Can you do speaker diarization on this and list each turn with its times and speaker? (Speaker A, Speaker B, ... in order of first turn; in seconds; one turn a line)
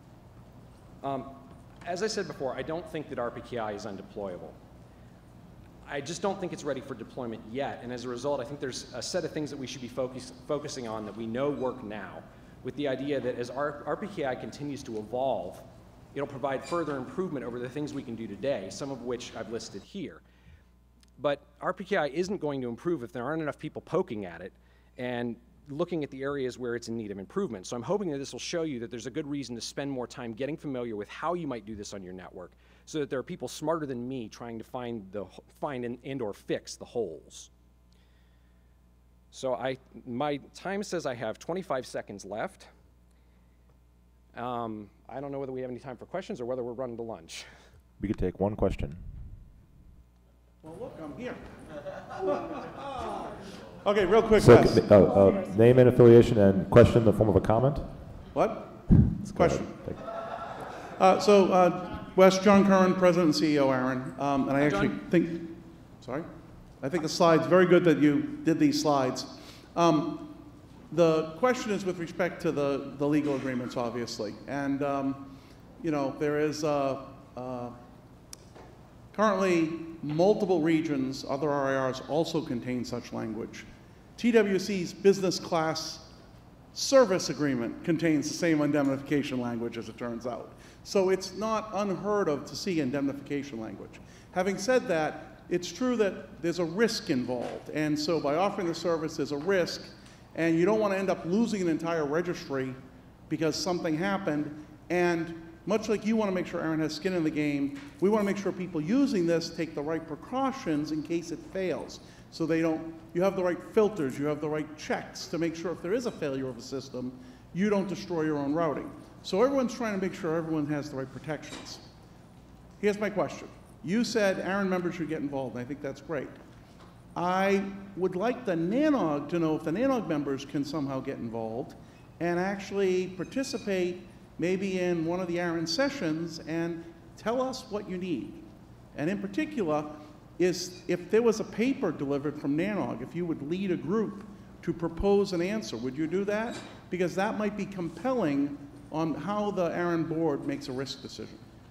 Speaker A: 1.0-4.5
Speaker A: 5.8-20.2
Speaker A: 21.2-37.5
Speaker A: 39.3-42.7
Speaker A: 44.3-47.5
Speaker B: 48.0-49.1
Speaker C: 50.6-51.4
Speaker C: 52.2-52.6
Speaker C: 53.8-55.1
Speaker B: 54.4-58.2
Speaker C: 58.3-60.1
Speaker B: 58.9-60.0
Speaker C: 61.0-66.3
Speaker C: 66.8-77.8
Speaker C: 79.1-86.1
Speaker C: 86.7-121.8
Speaker C: 122.8-126.4
Speaker C: 127.1-151.4